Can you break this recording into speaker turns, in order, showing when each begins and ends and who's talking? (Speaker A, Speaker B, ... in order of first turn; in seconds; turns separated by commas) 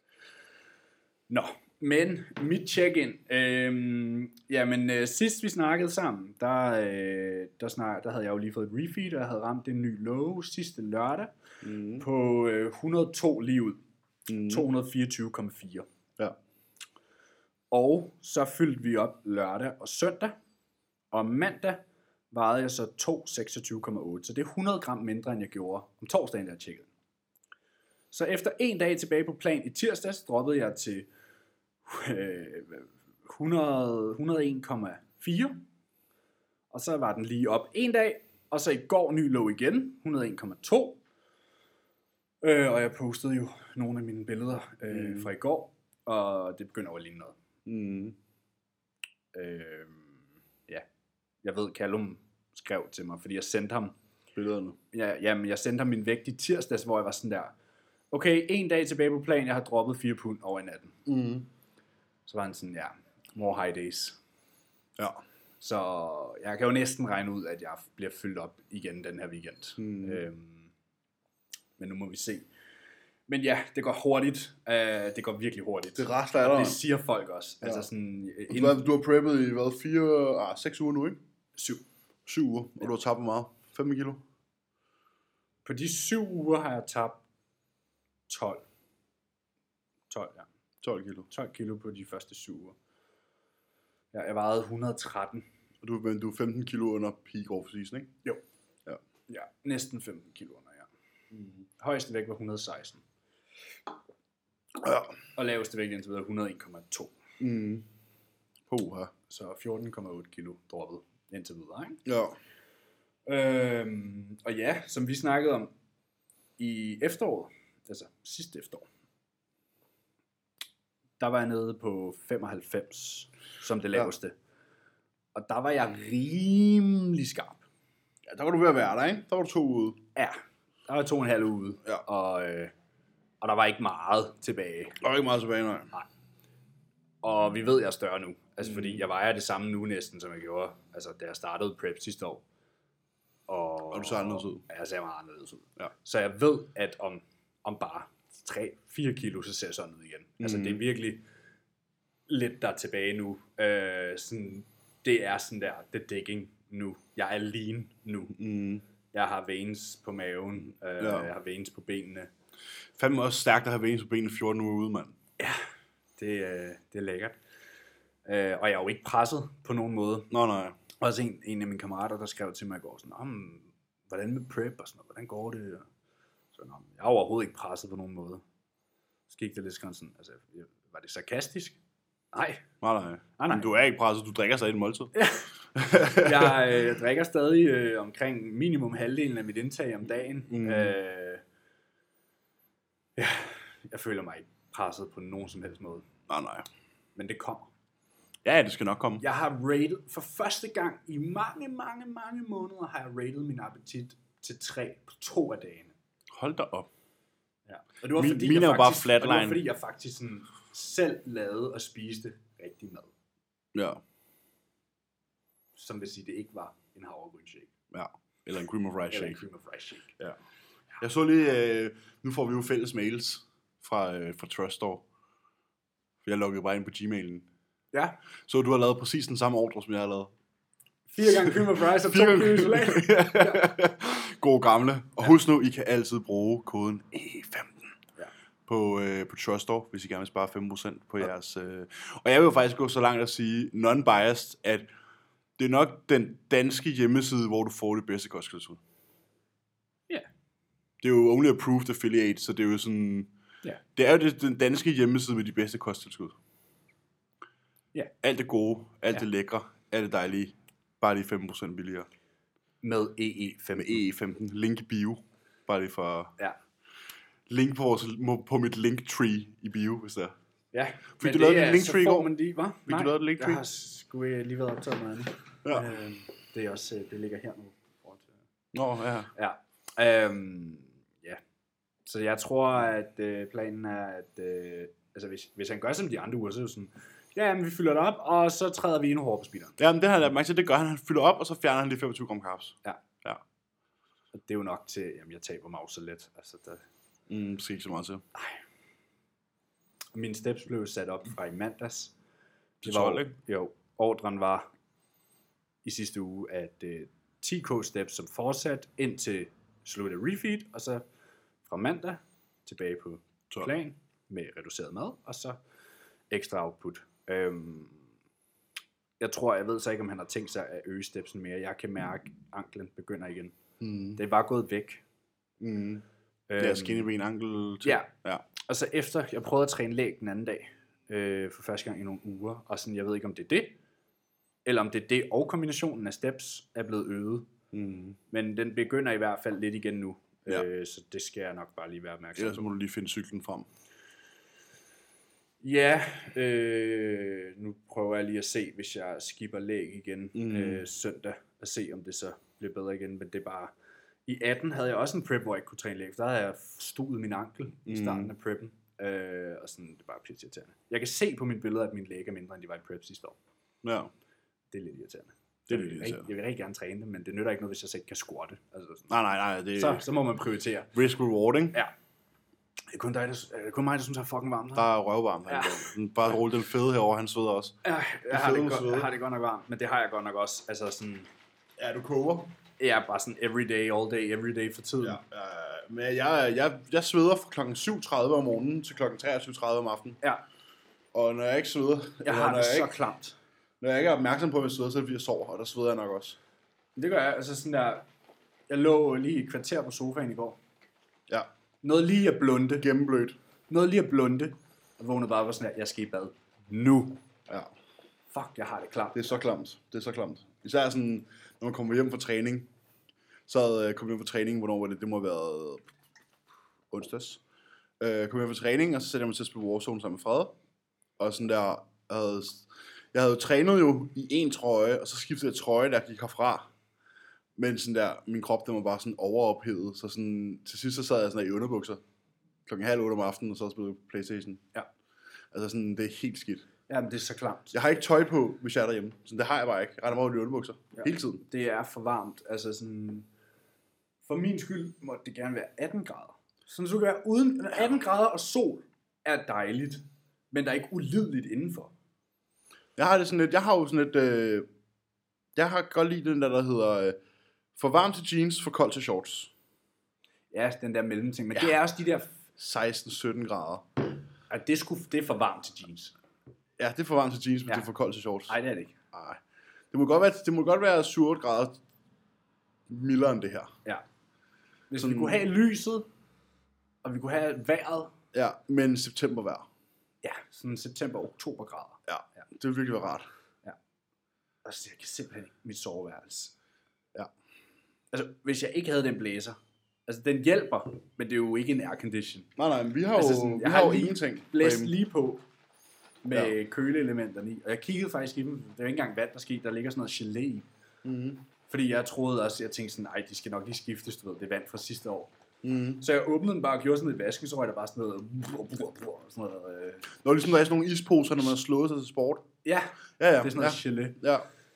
Speaker A: 1.3-11.3, Speaker B: 11.6-12.1, Speaker A: 12.0-13.8, Speaker B: 14.3-14.7, Speaker A: 14.5-15.9, Speaker A: 17.7-20.4, Speaker A: 21.1-21.8, Speaker A: 22.3-26.9, Speaker A: 28.1-31.1, Speaker A: 31.9-35.6, Speaker A: 36.7-41.0, Speaker A: 42.4-47.4, Speaker B: 44.9-45.3, Speaker B: 47.6-48.2, Speaker A: 49.3-50.9, Speaker A: 51.4-54.0, Speaker B: 54.4-54.8, Speaker A: 54.9-57.5, Speaker A: 58.1-61.0, Speaker B: 61.1-61.5, Speaker A: 62.3-64.2, Speaker A: 65.6-70.7, Speaker B: 69.8-70.2, Speaker A: 71.8-72.5, Speaker A: 73.3-78.8, Speaker B: 76.0-76.8, Speaker B: 77.6-77.9, Speaker B: 78.5-81.2, Speaker A: 81.6-81.8, Speaker B: 82.3-84.2, Speaker A: 85.7-87.2, Speaker A: 88.3-88.7, Speaker A: 90.1-90.5, Speaker B: 90.8-91.3, Speaker A: 91.3-92.8, Speaker A: 94.1-95.5, Speaker B: 95.8-98.2, Speaker A: 99.3-103.0, Speaker B: 104.8-105.2, Speaker A: 105.3-107.2, Speaker B: 107.4-107.9, Speaker B: 108.7-109.1, Speaker A: 109.3-112.0, Speaker B: 112.1-112.3, Speaker A: 113.3-115.7, Speaker A: 116.6-118.8, Speaker A: 121.2-124.3, Speaker A: 125.3-127.6, Speaker B: 128.3-130.0, Speaker A: 130.2-132.7, Speaker A: 133.4-135.0, Speaker B: 135.0-135.9, Speaker A: 137.2-142.4, Speaker B: 138.6-139.0, Speaker A: 143.5-151.2, Speaker B: 143.9-144.6, Speaker B: 150.4-150.8, Speaker A: 152.3-158.4, Speaker B: 158.3-158.8, Speaker A: 159.1-162.3, Speaker B: 161.0-161.3, Speaker B: 163.0-165.2, Speaker A: 166.2-167.4, Speaker A: 168.3-170.3, Speaker B: 170.3-170.8, Speaker A: 171.0-175.9, Speaker A: 176.6-178.4, Speaker A: 179.3-181.8, Speaker A: 182.3-182.6, Speaker B: 182.8-185.1, Speaker A: 183.4-183.7, Speaker A: 185.1-185.5, Speaker B: 185.8-186.8, Speaker A: 186.1-191.4, Speaker B: 190.5-191.0, Speaker A: 193.2-196.1, Speaker B: 196.3-196.7, Speaker A: 197.2-197.7, Speaker B: 198.4-199.2, Speaker A: 199.2-205.9, Speaker B: 206.3-206.9, Speaker A: 207.7-213.1, Speaker B: 208.1-209.6, Speaker B: 213.7-214.0, Speaker A: 215.8-217.7, Speaker B: 217.9-219.4, Speaker A: 219.1-220.1, Speaker B: 221.0-225.1, Speaker B: 226.2-227.5, Speaker B: 228.5-230.3, Speaker A: 231.1-233.6, Speaker B: 231.4-237.9, Speaker B: 238.7-244.9, Speaker B: 245.6-248.8, Speaker B: 251.0-253.3, Speaker B: 254.0-256.4, Speaker B: 258.2-262.1, Speaker A: 262.8-264.0, Speaker B: 263.8-266.3, Speaker B: 267.5-270.4, Speaker A: 270.7-278.3, Speaker B: 271.2-272.3, Speaker B: 272.9-273.6, Speaker B: 275.6-276.0, Speaker B: 278.7-279.3, Speaker A: 279.3-281.4, Speaker A: 282.1-289.8, Speaker B: 289.8-293.4, Speaker A: 294.3-296.8, Speaker B: 297.3-298.2, Speaker A: 298.4-298.6, Speaker A: 300.1-302.1, Speaker B: 302.8-303.3, Speaker A: 302.9-304.7, Speaker A: 305.9-311.0, Speaker A: 311.6-315.6, Speaker A: 316.3-318.1, Speaker A: 319.2-323.6, Speaker B: 323.8-324.2, Speaker A: 324.2-325.0, Speaker B: 325.6-326.1, Speaker A: 326.5-327.1, Speaker B: 326.6-328.4, Speaker A: 327.8-328.1, Speaker A: 328.6-333.8, Speaker A: 334.6-337.5, Speaker B: 337.7-338.2, Speaker A: 338.3-342.6, Speaker B: 342.4-343.7, Speaker A: 345.6-353.7, Speaker B: 350.4-350.8, Speaker A: 354.3-363.4, Speaker B: 357.9-358.3, Speaker B: 363.8-364.1, Speaker A: 364.7-369.1, Speaker B: 365.7-366.3, Speaker B: 369.1-370.1, Speaker A: 369.8-370.9, Speaker B: 370.9-371.8, Speaker A: 372.9-374.9, Speaker B: 374.8-377.8, Speaker A: 375.5-375.9, Speaker A: 377.8-381.3, Speaker B: 378.3-379.1, Speaker B: 381.8-382.5, Speaker A: 382.8-385.2, Speaker B: 385.0-390.2, Speaker B: 391.1-393.0, Speaker A: 392.2-393.4, Speaker B: 393.8-396.4, Speaker A: 397.0-398.1, Speaker A: 398.7-400.6, Speaker A: 401.8-402.9, Speaker B: 402.8-403.4, Speaker A: 403.7-407.2, Speaker A: 408.3-409.4, Speaker B: 409.1-412.7, Speaker B: 413.5-415.9, Speaker B: 416.9-417.4, Speaker B: 418.0-420.5, Speaker B: 421.2-426.7, Speaker B: 427.6-432.0, Speaker B: 432.7-434.6, Speaker B: 435.5-436.7, Speaker A: 436.9-437.8, Speaker B: 437.7-441.4, Speaker A: 440.9-443.3, Speaker A: 444.3-451.9, Speaker B: 453.0-454.7, Speaker B: 455.6-457.2, Speaker B: 457.8-459.5, Speaker A: 460.5-462.4, Speaker B: 462.6-463.9, Speaker A: 464.5-466.1, Speaker B: 466.8-468.6, Speaker A: 468.5-469.0, Speaker B: 469.1-469.4, Speaker B: 469.9-471.8, Speaker B: 472.9-473.7, Speaker A: 474.9-476.1, Speaker B: 475.0-475.4, Speaker A: 477.0-478.1, Speaker B: 478.3-479.7, Speaker A: 480.2-482.4, Speaker B: 482.1-483.3, Speaker A: 484.6-486.6, Speaker A: 488.1-489.6, Speaker A: 490.1-492.5, Speaker B: 492.6-494.9, Speaker A: 493.1-495.4, Speaker A: 496.2-500.7, Speaker B: 501.1-501.4, Speaker A: 501.7-505.3, Speaker B: 505.6-506.0, Speaker A: 506.0-510.1, Speaker B: 510.1-512.5, Speaker A: 512.6-514.2, Speaker B: 513.2-514.5